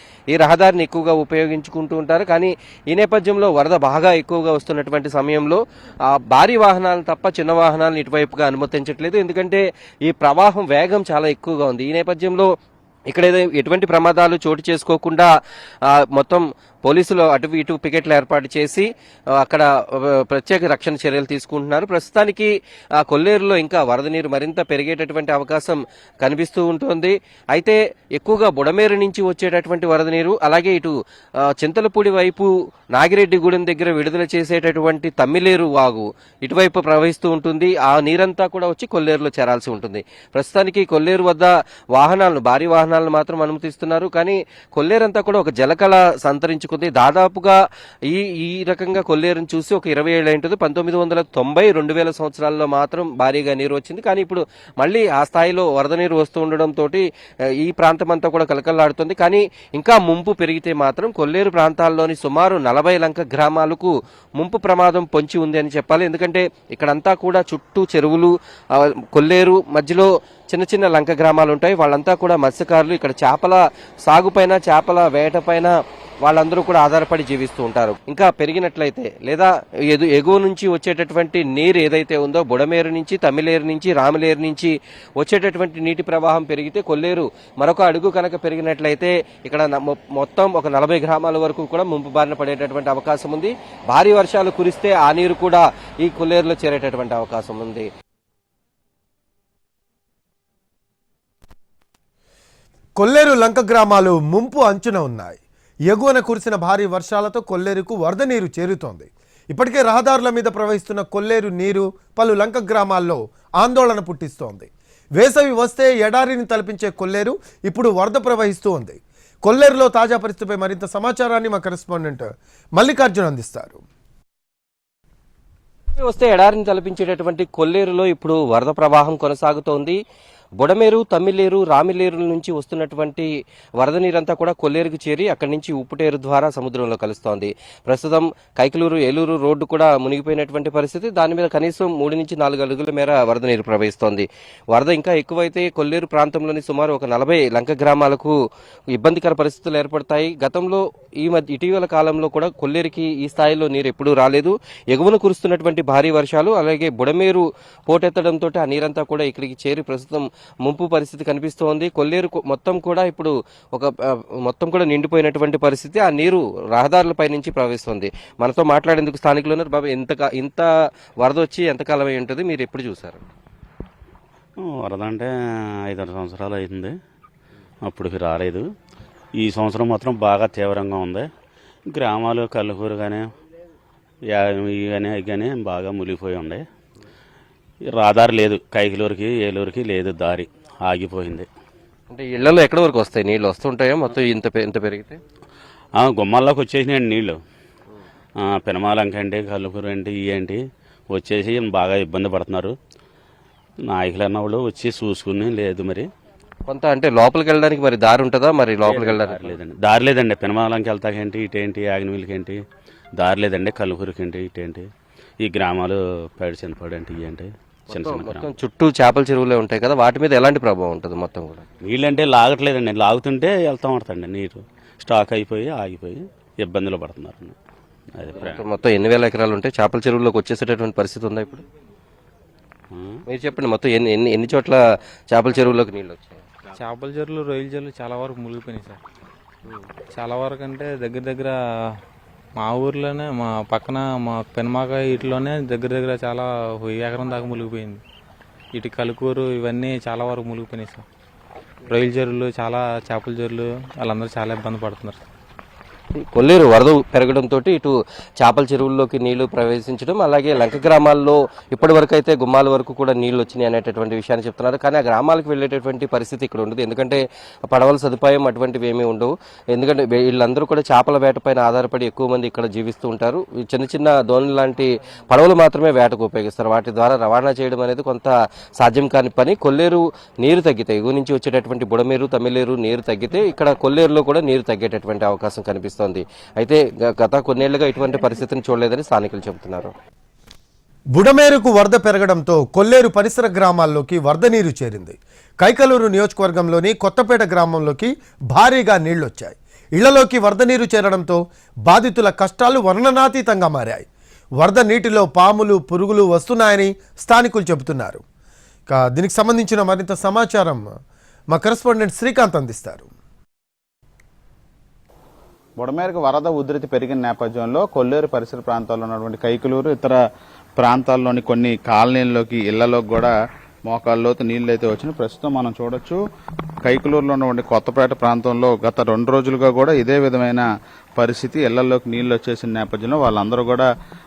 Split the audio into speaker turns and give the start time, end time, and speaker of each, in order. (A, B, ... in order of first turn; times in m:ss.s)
0:00.3-0:12.5 A
0:13.1-0:15.3 A
0:16.0-0:30.9 A
0:31.5-0:47.6 A
0:48.1-0:57.0 A
0:57.6-1:15.7 A
1:16.2-1:37.9 A
1:43.0-2:03.8 B
2:06.0-2:10.0 A
2:10.6-2:13.3 A
2:13.8-2:28.3 A
2:28.9-2:43.9 A
2:44.4-2:50.7 A
2:51.2-2:53.2 A
2:54.9-2:55.2 C
2:56.0-2:56.9 C
2:57.9-2:58.6 C
2:59.5-3:01.2 C
3:01.9-3:03.2 C
3:04.9-3:06.6 C
3:08.0-3:11.4 C
3:12.1-3:15.2 A
3:16.1-3:17.3 C
3:18.7-3:20.5 C
3:21.2-3:22.7 C
3:24.0-3:26.0 C
3:26.7-3:29.6 A
3:28.9-3:32.5 C
3:33.2-3:34.8 C
3:35.5-3:38.3 C
3:37.9-3:41.6 A
3:41.9-3:46.2 C
3:46.7-3:47.5 C
3:48.2-3:48.6 C
3:48.4-3:51.6 A
3:53.3-3:56.4 A
3:56.8-3:59.0 D
4:00.2-4:01.5 D
4:02.6-4:08.0 D
4:08.7-4:11.0 D
4:11.9-4:15.2 D
4:16.1-4:49.9 A
4:51.1-5:04.1 B
5:04.6-5:08.2 B
5:08.9-5:10.9 B
5:11.5-5:13.1 B
5:15.8-5:20.2 E
5:20.8-5:23.3 E
5:23.9-5:26.2 E
5:26.9-5:30.6 E
5:31.2-5:33.9 E